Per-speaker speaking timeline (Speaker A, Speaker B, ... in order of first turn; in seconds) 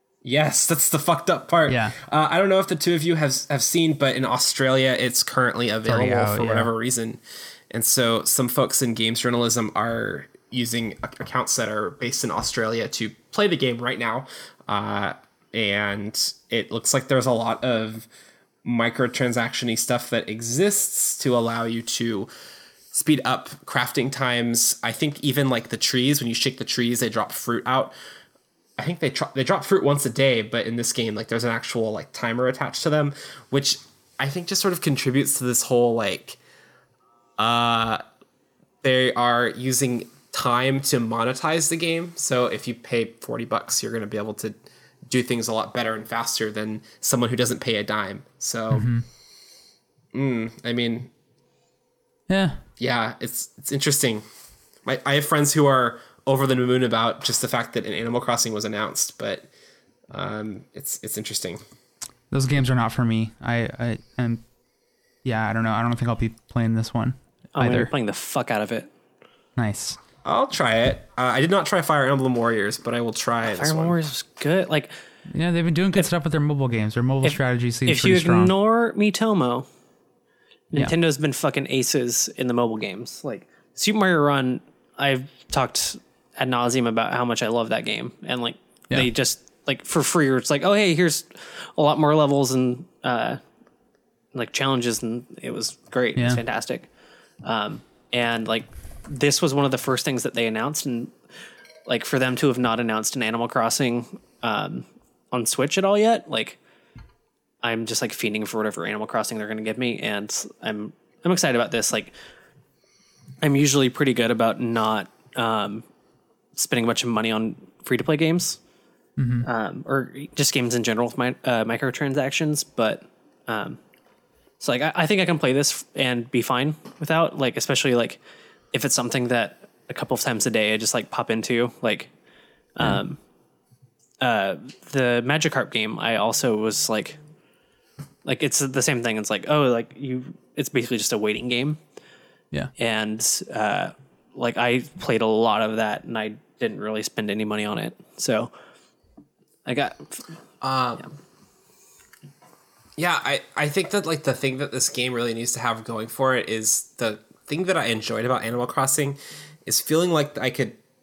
Speaker A: 0.2-18.1, 18.6-22.3, 22.9-27.9, 28.8-36.4, 37.4-38.0, 38.8-44.5, 45.1-48.9, 50.1-51.1, 52.8-54.2, 54.8-59.5, 60.1-61.6, 70.2-74.0, 150.6-151.1, 153.0-160.8
Speaker B: 1.7-1.9, 5.8-6.7, 48.7-49.0, 52.3-52.6, 62.3-64.4, 65.2-67.9, 69.5-70.0, 75.3-78.5, 96.2-96.4, 119.2-119.5
Speaker C: 67.5-68.9, 73.5-74.9, 77.2-79.7, 80.7-93.4, 94.3-96.9, 97.4-101.1, 101.8-106.6, 107.6-112.1, 113.4-115.8, 116.5-118.6, 119.4-123.8, 124.6-128.2, 128.7-132.1, 132.8-133.2, 134.2-137.2, 138.2-141.8, 142.8-148.5, 149.6-150.2